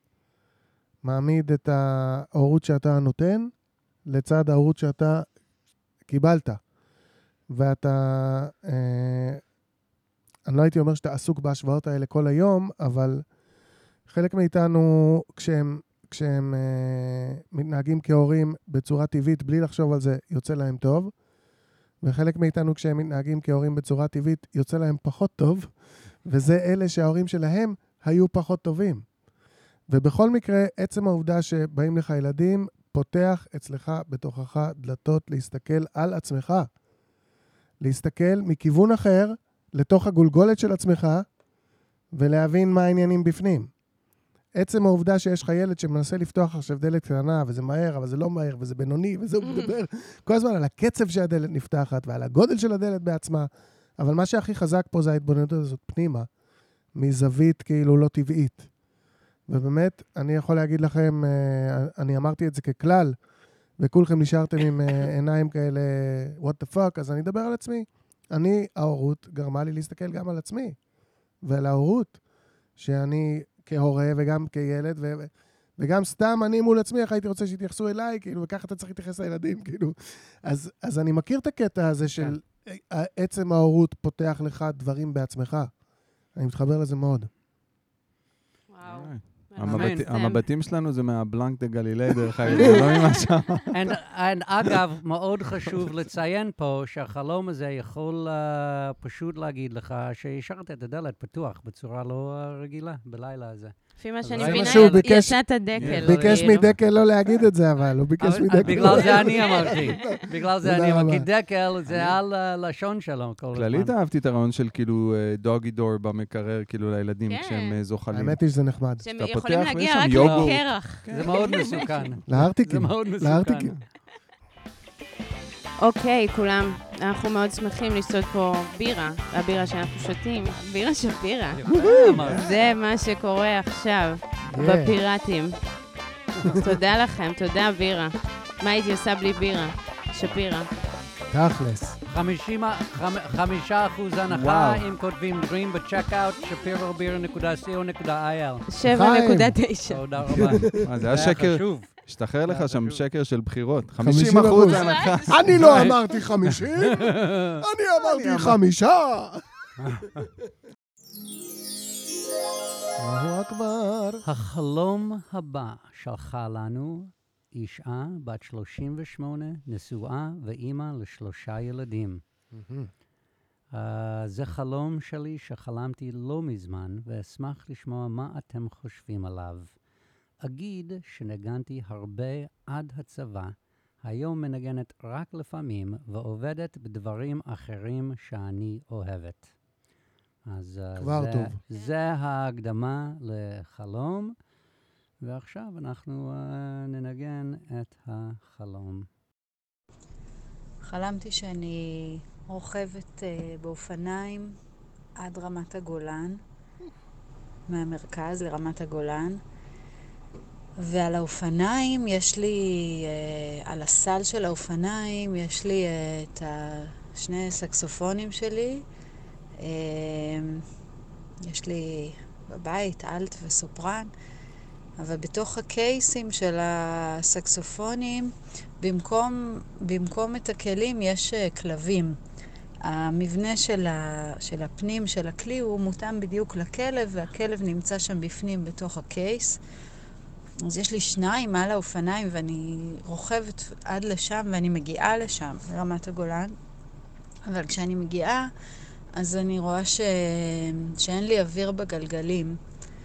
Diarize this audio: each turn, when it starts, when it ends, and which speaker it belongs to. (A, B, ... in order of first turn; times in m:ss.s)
0:01.0-0:03.5 A
0:04.1-0:05.3 A
0:06.1-0:06.6 A
0:07.5-0:09.4 A
0:10.4-0:13.2 A
0:14.1-0:21.1 A
0:22.0-0:25.7 A
0:26.2-0:29.0 A
0:29.9-0:36.7 A
0:37.8-0:41.2 A
0:42.1-0:43.7 A
0:44.6-0:56.3 A
0:57.0-0:58.7 A
0:59.5-1:03.1 A
1:03.8-1:10.8 A
1:11.4-1:12.2 A
1:12.8-1:25.7 A
1:26.3-1:27.3 A
1:28.7-1:30.4 B
1:28.8-1:33.9 C
1:29.6-1:30.1 D
1:32.6-1:33.2 B
1:33.7-1:45.0 D
1:44.0-1:46.6 B
1:44.4-1:51.3 A
1:45.7-1:46.8 C
1:45.8-1:46.4 D
1:48.2-1:53.9 D
1:48.7-1:48.9 C
1:48.8-1:50.2 B
1:51.8-1:52.2 C
1:53.5-1:58.4 C
1:57.3-1:57.8 B
1:58.1-1:59.0 A
1:59.0-2:02.1 B
1:59.1-2:02.2 C
2:00.0-2:03.7 D
2:02.3-2:03.7 A
2:05.8-2:15.6 B
2:11.5-2:12.5 D
2:12.2-2:12.7 C
2:14.5-2:14.9 A
2:16.5-2:20.7 B
2:21.3-2:22.0 A
2:22.1-2:28.7 D
2:24.3-2:24.8 C
2:28.7-2:30.0 B
2:28.8-2:29.6 A
2:29.9-2:33.0 D
2:30.3-2:30.8 A
2:30.8-2:35.9 C
2:34.0-2:39.4 A
2:34.6-2:35.3 B
2:35.5-2:37.5 D
2:38.0-2:38.6 C
2:39.8-2:40.3 D
2:43.0-2:44.2 A
2:44.2-2:52.2 D
2:52.5-2:52.9 A
2:53.7-2:59.7 D
3:00.4-3:09.5 D
3:10.4-3:14.3 D
3:11.0-3:11.6 A
3:15.2-3:19.1 D
3:20.8-3:24.6 E
3:25.2-3:26.4 E
3:27.7-3:29.4 E
3:30.8-3:38.8 E
3:39.6-3:40.6 E
3:41.4-3:44.1 E
3:45.0-3:52.2 E
3:52.8-3:59.6 E
4:00.6-4:06.5 E
4:07.4-4:08.5 E
4:09.2-4:12.6 E